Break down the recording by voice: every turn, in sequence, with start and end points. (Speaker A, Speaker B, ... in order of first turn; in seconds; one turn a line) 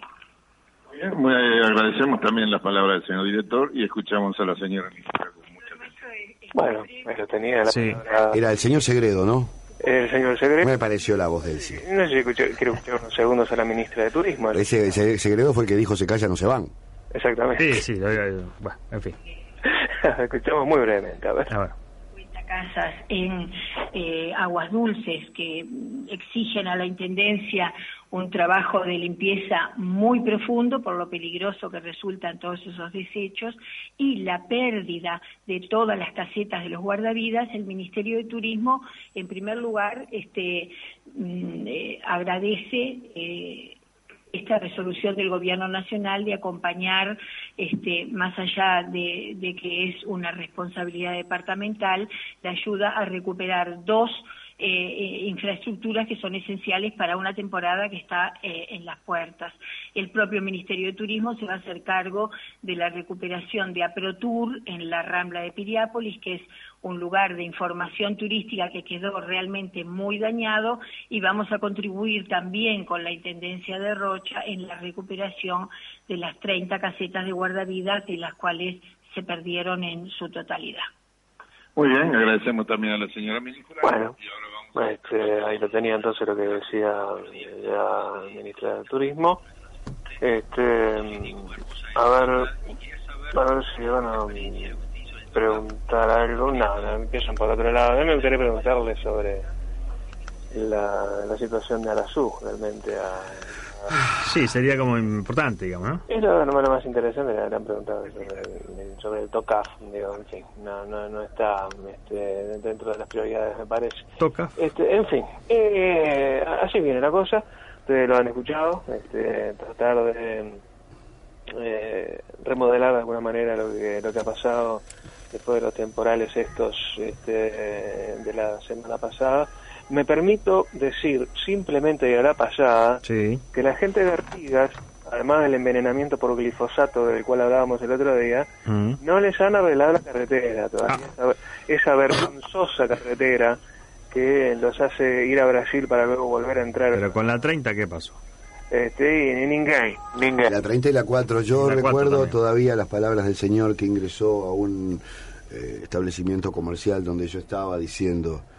Speaker A: 0.9-5.8
Speaker B: 6.5-8.4
Speaker C: 7.7-8.0
Speaker D: 8.3-9.5
Speaker B: 9.8-10.7
Speaker D: 10.6-11.8
Speaker B: 11.7-14.6
Speaker D: 14.5-16.7
Speaker B: 17.1-17.8
Speaker C: 17.6-19.2
Speaker B: 19.6-21.5
Speaker C: 21.5-21.7
Speaker E: 22.1-43.8
Speaker E: 44.3-80.9
Speaker A: 81.8-83.9
Speaker B: 83.8-84.1
Speaker B: 84.7-89.4
Speaker B: 90.2-92.6
Speaker B: 93.3-94.8
Speaker B: 95.3-99.5
Speaker B: 100.5-103.6
Speaker C: 104.2-106.0
Speaker B: 106.1-114.0
Speaker C: 114.2-114.5
Speaker B: 114.6-120.6
Speaker B: 121.5-138.5
Speaker C: 133.0-133.4
Speaker C: 138.7-139.0
Speaker B: 139.0-143.6
Speaker B: 144.1-147.1
Speaker C: 146.9-148.2
Speaker B: 148.7-150.5
Speaker D: 150.4-158.4
Speaker C: 151.6-152.4